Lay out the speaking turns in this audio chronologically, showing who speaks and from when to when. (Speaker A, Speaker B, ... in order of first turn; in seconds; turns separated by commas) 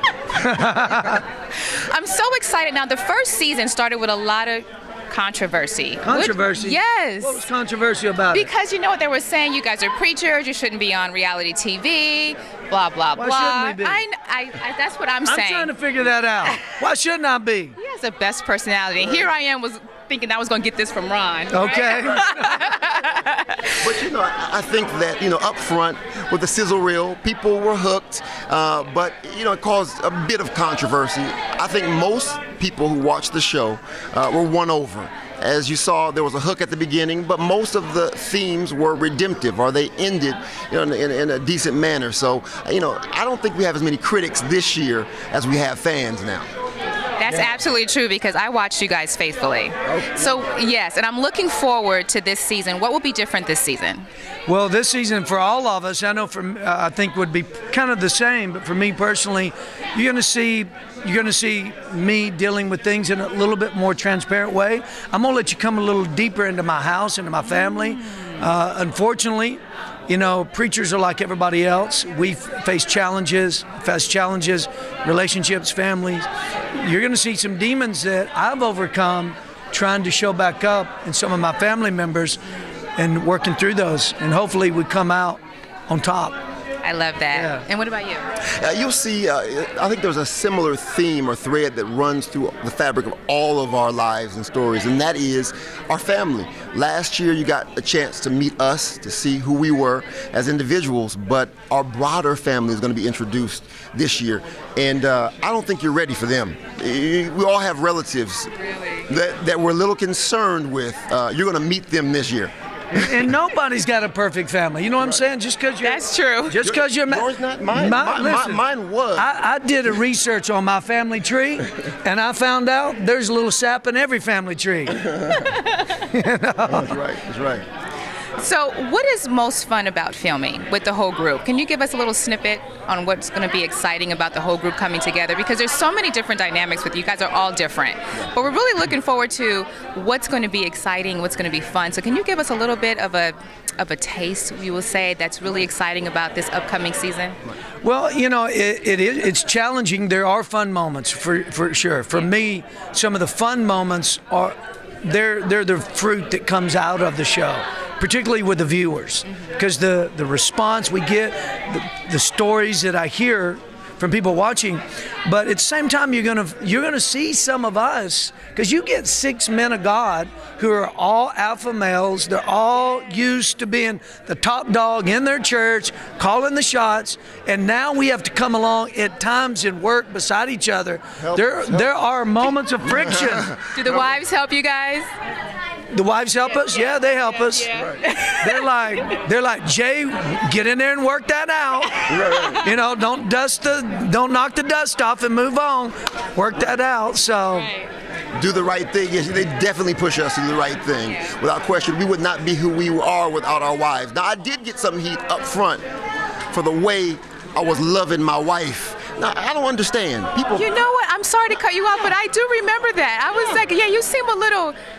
Speaker A: 0.3-1.2, Speaker B: 0.6-7.4, Speaker A: 6.0-8.5, Speaker B: 8.3-15.7, Speaker A: 13.2-14.0, Speaker A: 15.2-17.8, Speaker B: 16.4-16.7, Speaker B: 17.8-23.8, Speaker A: 21.5-22.8, Speaker C: 23.8-46.5, Speaker B: 47.2-54.0, Speaker C: 47.3-47.6, Speaker C: 49.9-50.4, Speaker A: 54.5-82.4, Speaker B: 67.5-68.3, Speaker A: 83.0-86.4, Speaker B: 86.8-88.3, Speaker A: 87.3-87.6, Speaker C: 88.6-113.2, Speaker A: 112.9-118.6, Speaker B: 115.8-116.6, Speaker C: 116.6-119.3, Speaker A: 119.2-125.0, Speaker C: 125.0-125.3, Speaker B: 125.3-125.6, Speaker A: 126.0-126.9, Speaker C: 126.6-127.6, Speaker B: 128.4-147.4, Speaker A: 147.8-183.5, Speaker C: 181.2-181.9, Speaker C: 182.9-184.1, Speaker B: 183.7-185.1, Speaker A: 185.9-187.7, Speaker B: 187.3-188.6, Speaker A: 188.4-197.7, Speaker C: 192.1-192.6, Speaker B: 197.5-197.9, Speaker C: 198.3-205.8, Speaker C: 206.5-210.7, Speaker B: 210.5-214.8